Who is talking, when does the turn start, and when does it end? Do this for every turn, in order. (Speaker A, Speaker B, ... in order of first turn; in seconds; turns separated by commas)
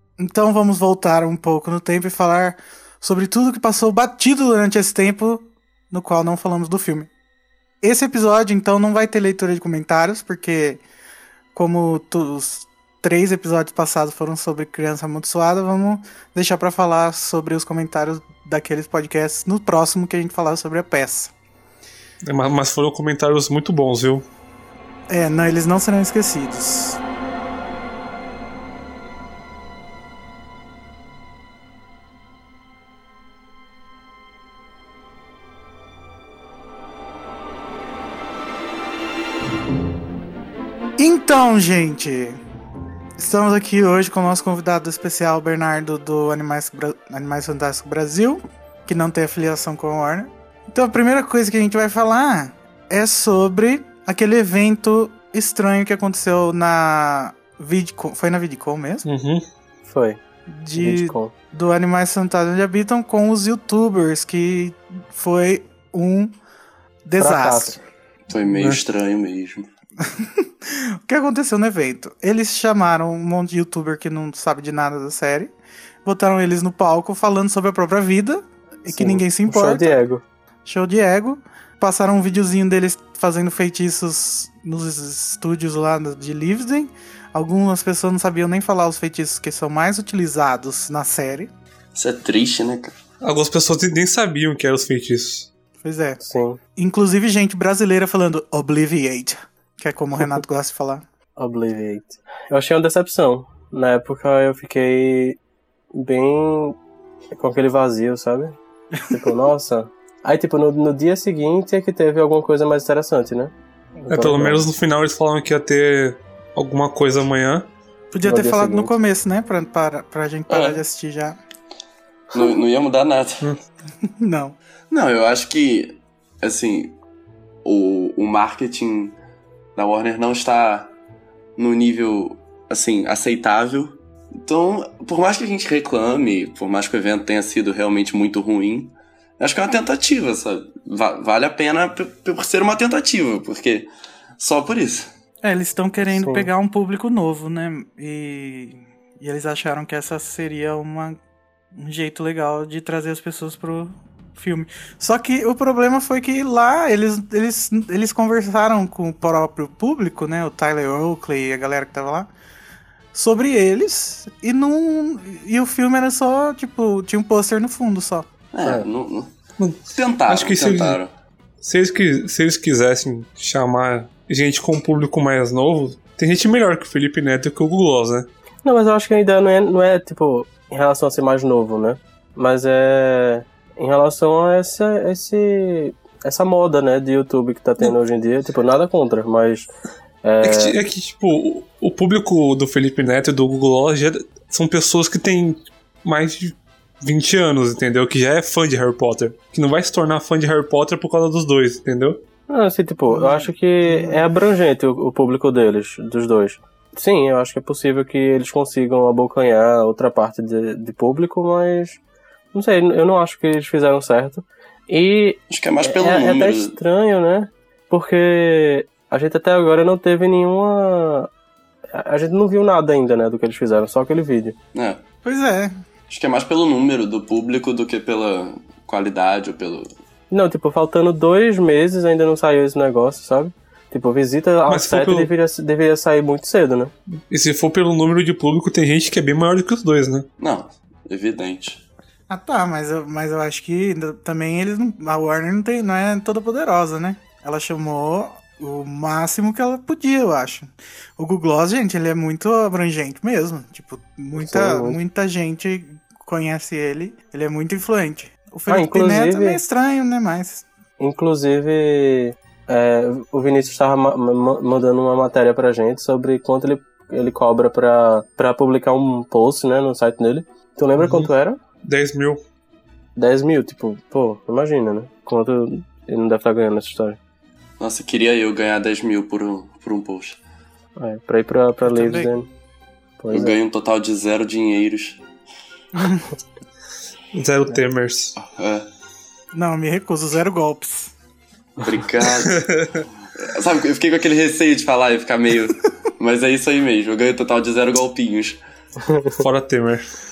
Speaker A: 0.2-7.1, Speaker A: 7.8-10.8, Speaker A: 11.5-21.3, Speaker B: 22.2-24.2, Speaker A: 25.1-27.0, Speaker A: 41.0-42.4, Speaker A: 43.2-59.0, Speaker B: 59.0-59.4, Speaker C: 59.8-60.2, Speaker A: 60.5-66.3, Speaker C: 60.7-61.3, Speaker A: 67.0-67.8, Speaker C: 67.2-67.8, Speaker D: 68.3-69.7, Speaker B: 68.5-68.8, Speaker A: 70.0-75.5, Speaker A: 76.0-80.0, Speaker C: 78.9-80.2, Speaker A: 80.6-91.5, Speaker D: 91.9-93.0, Speaker B: 93.2-95.5, Speaker A: 95.8-96.2, Speaker C: 96.2-96.6, Speaker A: 96.8-101.0, Speaker C: 101.4-105.4, Speaker C: 105.9-106.8, Speaker C: 107.3-108.5, Speaker A: 109.0-109.3, Speaker C: 109.1-114.7, Speaker B: 114.1-117.7, Speaker A: 118.1-121.4, Speaker C: 118.2-118.9, Speaker D: 120.5-120.8, Speaker D: 122.3-123.5, Speaker A: 124.1-124.5, Speaker D: 124.9-127.0, Speaker D: 127.6-129.2, Speaker D: 129.8-130.9, Speaker D: 131.6-143.9, Speaker D: 144.4-145.1, Speaker A: 145.4-151.2, Speaker C: 146.1-146.5, Speaker A: 151.8-162.3, Speaker A: 163.1-168.3, Speaker D: 168.5-169.3, Speaker B: 169.6-171.0, Speaker D: 169.9-171.1, Speaker B: 171.6-178.3, Speaker C: 178.6-189.7, Speaker C: 190.2-190.8, Speaker B: 190.4-202.2, Speaker C: 202.5-212.0, Speaker A: 203.1-204.3, Speaker C: 212.5-221.3, Speaker D: 215.5-216.7, Speaker C: 221.9-224.6, Speaker D: 224.7-225.0, Speaker A: 225.2-225.7, Speaker D: 226.1-229.9, Speaker C: 230.3-236.9, Speaker B: 234.7-235.3, Speaker B: 237.3-240.2, Speaker D: 240.4-241.8, Speaker A: 242.3-260.6, Speaker C: 254.3-255.0, Speaker C: 258.7-259.6, Speaker C: 261.0-271.6, Speaker B: 271.0-271.3, Speaker B: 271.8-272.4, Speaker C: 273.1-277.2, Speaker D: 277.8-280.4, Speaker C: 281.0-282.5, Speaker A: 281.8-282.3, Speaker C: 283.2-283.6, Speaker D: 283.3-285.2, Speaker A: 285.9-286.3, Speaker B: 287.3-288.4, Speaker D: 288.4-288.9, Speaker A: 289.5-291.1, Speaker D: 291.8-292.6, Speaker B: 292.2-293.1, Speaker D: 293.4-298.6, Speaker C: 299.0-299.4, Speaker B: 299.4-300.1